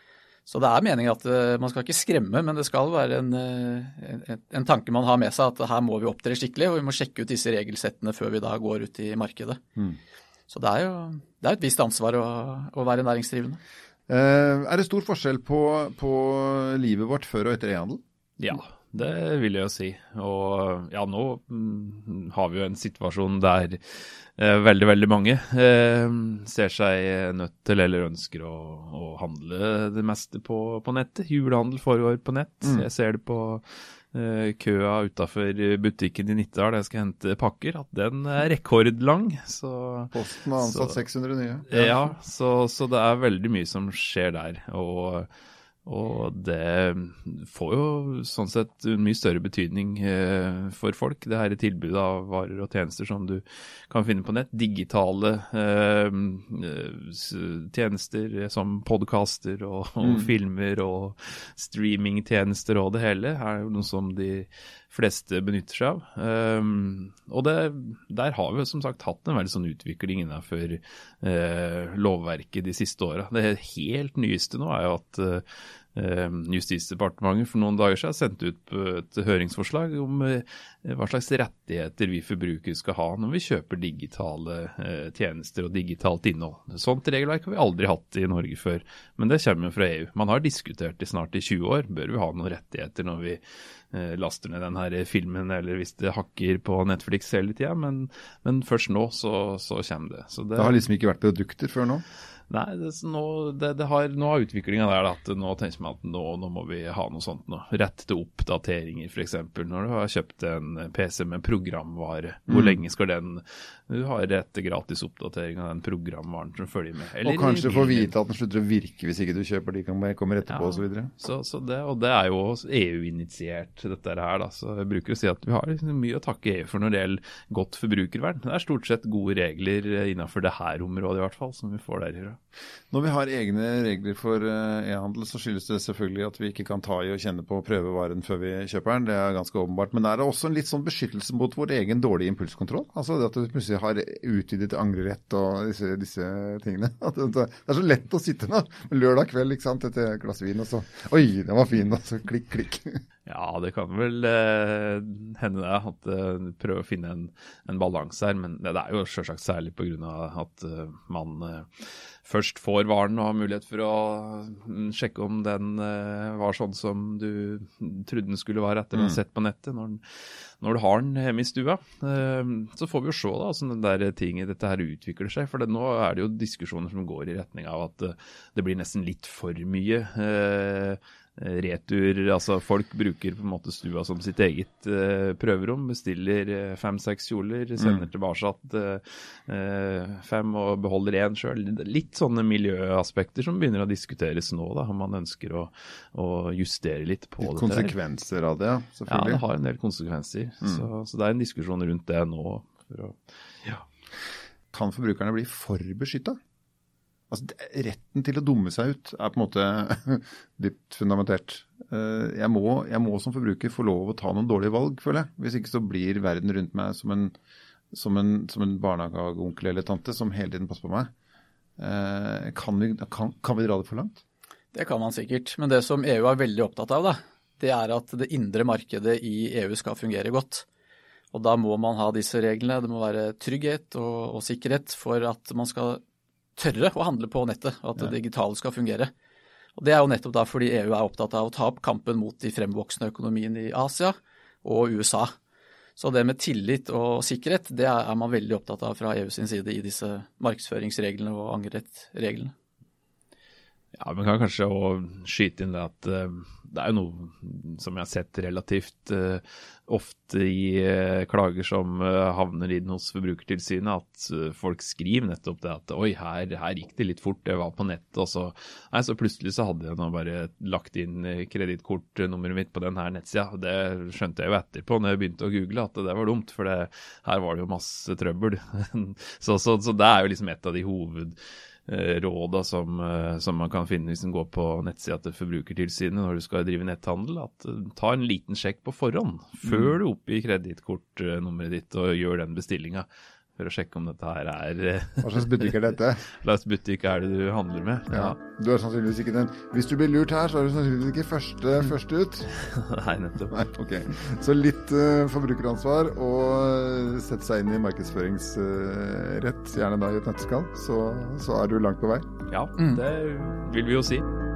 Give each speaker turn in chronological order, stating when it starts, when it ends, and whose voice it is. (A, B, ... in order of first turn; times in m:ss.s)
0:00.5-0:09.6 A
0:10.5-0:13.6 A
0:14.1-0:18.0 B
0:18.4-0:41.0 C
0:40.1-0:42.0 B
0:41.7-0:45.3 C
0:45.9-1:15.4 C
1:00.0-1:00.3 B
1:16.0-1:33.4 C
1:33.9-1:40.7 C
1:40.6-1:42.0 B
1:42.5-1:58.1 C
1:52.5-1:52.8 B
1:57.2-2:01.1 B
2:00.5-2:12.4 C
2:12.9-2:33.0 B
2:33.3-2:50.0 C
2:50.6-3:18.0 C
3:07.8-3:08.1 B
3:17.4-3:19.4 B
3:19.1-3:23.8 C
3:24.7-3:26.4 B
3:27.3-3:37.3 B
3:37.9-3:41.1 B
3:41.8-3:44.2 B
3:44.7-3:50.7 A
3:51.3-3:56.0 A
3:56.6-3:59.1 A
3:59.8-4:05.3 A
4:06.0-4:12.5 A
4:14.0-4:41.4 C
4:41.9-4:58.4 C
4:49.6-4:49.9 B
4:55.2-4:56.2 B
4:58.1-5:02.5 B
5:02.6-5:03.7 C
5:03.5-5:12.3 B
5:12.5-5:14.2 C
5:12.8-5:13.0 A